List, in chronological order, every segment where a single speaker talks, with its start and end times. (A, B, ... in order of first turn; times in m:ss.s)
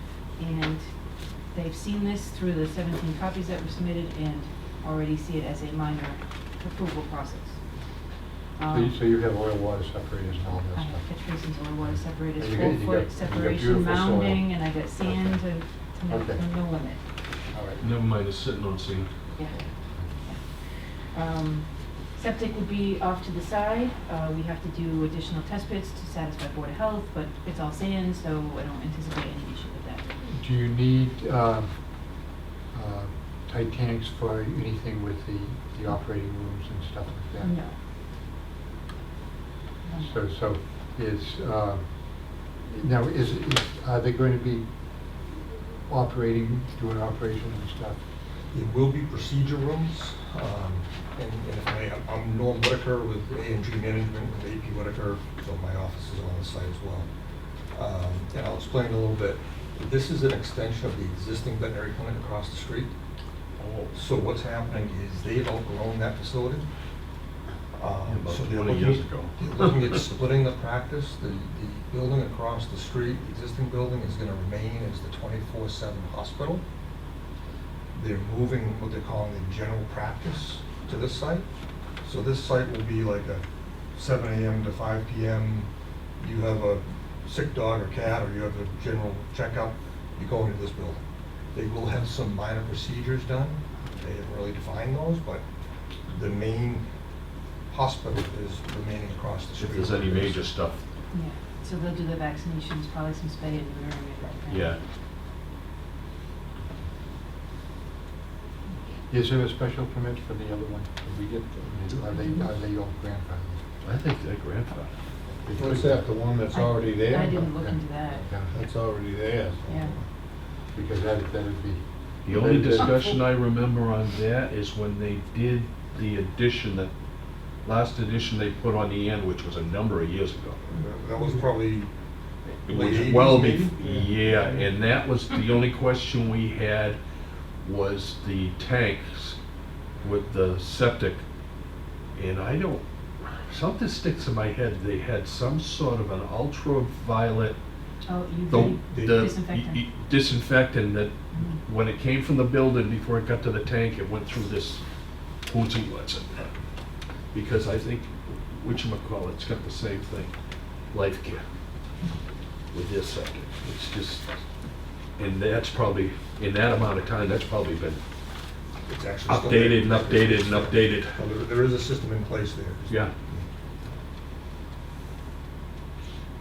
0:00.4-0:00.9 A
0:01.5-0:07.6 A
0:08.6-0:08.9 A
0:08.7-0:11.1 B
0:10.8-0:17.0 A
0:11.8-0:15.4 B
0:16.1-0:16.5 B
0:17.5-0:17.8 B
0:17.8-0:19.1 C
0:19.5-0:20.1 B
0:20.2-0:30.0 A
0:30.2-0:31.7 B
0:32.7-0:37.6 B
0:37.4-0:37.8 A
0:39.8-0:40.1 A
0:40.0-0:44.7 B
0:45.3-0:48.0 B
0:48.5-0:57.1 D
0:57.7-1:02.9 D
1:03.6-1:04.0 C
1:03.9-1:06.7 D
1:07.8-1:16.6 D
1:08.0-1:10.1 C
1:17.9-1:21.5 D
1:22.0-1:23.4 D
1:23.9-1:25.7 D
1:26.2-1:31.0 D
1:31.5-1:35.4 D
1:36.1-1:36.9 D
1:37.7-1:40.5 D
1:39.6-1:40.8 C
1:41.1-1:44.8 A
1:44.5-1:44.8 C
1:49.1-1:53.6 B
1:52.1-1:52.5 A
1:53.8-1:54.9 C
1:55.4-1:56.0 B
1:55.5-1:57.5 E
1:56.5-1:58.3 A
1:57.3-1:58.6 B
1:58.5-1:59.9 E
1:59.7-2:00.0 A
2:00.7-2:03.1 B
2:02.2-2:06.9 C
2:07.6-2:10.6 C
2:10.7-2:11.9 D
2:12.6-2:17.0 C
2:12.7-2:14.7 D
2:17.6-2:19.4 C
2:20.0-2:21.2 C
2:22.2-2:27.6 C
2:28.0-2:29.8 A
2:28.5-2:34.8 C
2:31.3-2:31.6 A
2:35.4-2:36.5 C
2:37.3-2:40.3 C
2:40.9-2:41.4 C
2:42.7-2:44.3 C
2:45.2-2:48.0 C
2:48.9-2:53.4 D
2:49.3-2:51.2 C